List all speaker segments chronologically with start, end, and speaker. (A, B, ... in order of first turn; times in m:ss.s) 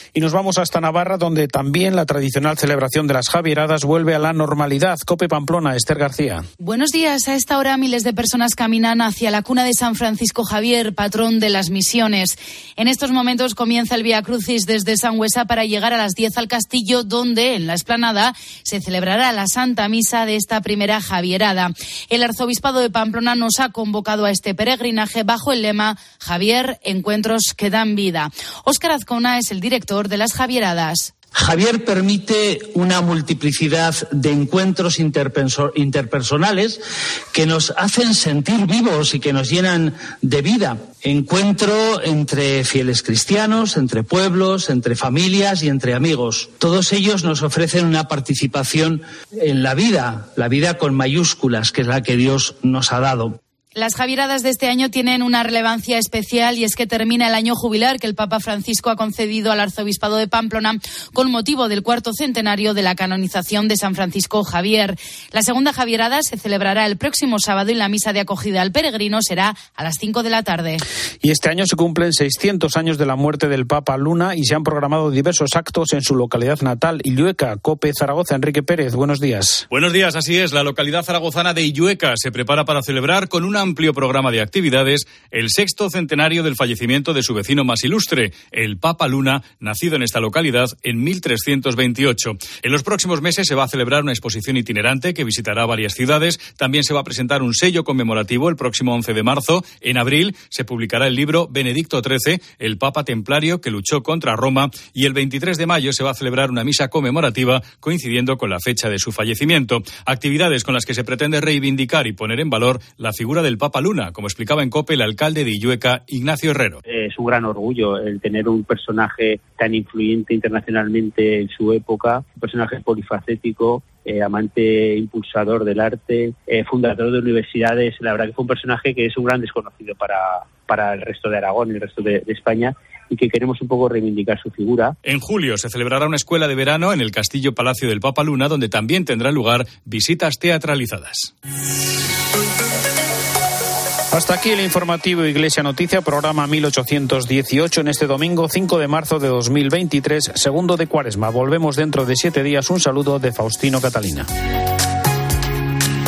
0:00.1-0:06.5 A
0:06.6-0:31.1 B
0:31.4-0:36.8 C
0:37.3-0:53.4 C
0:53.8-1:10.8 B
1:11.2-1:19.6 A
1:19.7-1:56.8 D
1:56.8-2:15.0 E
2:15.0-2:21.3 D
2:24.1-2:34.3 A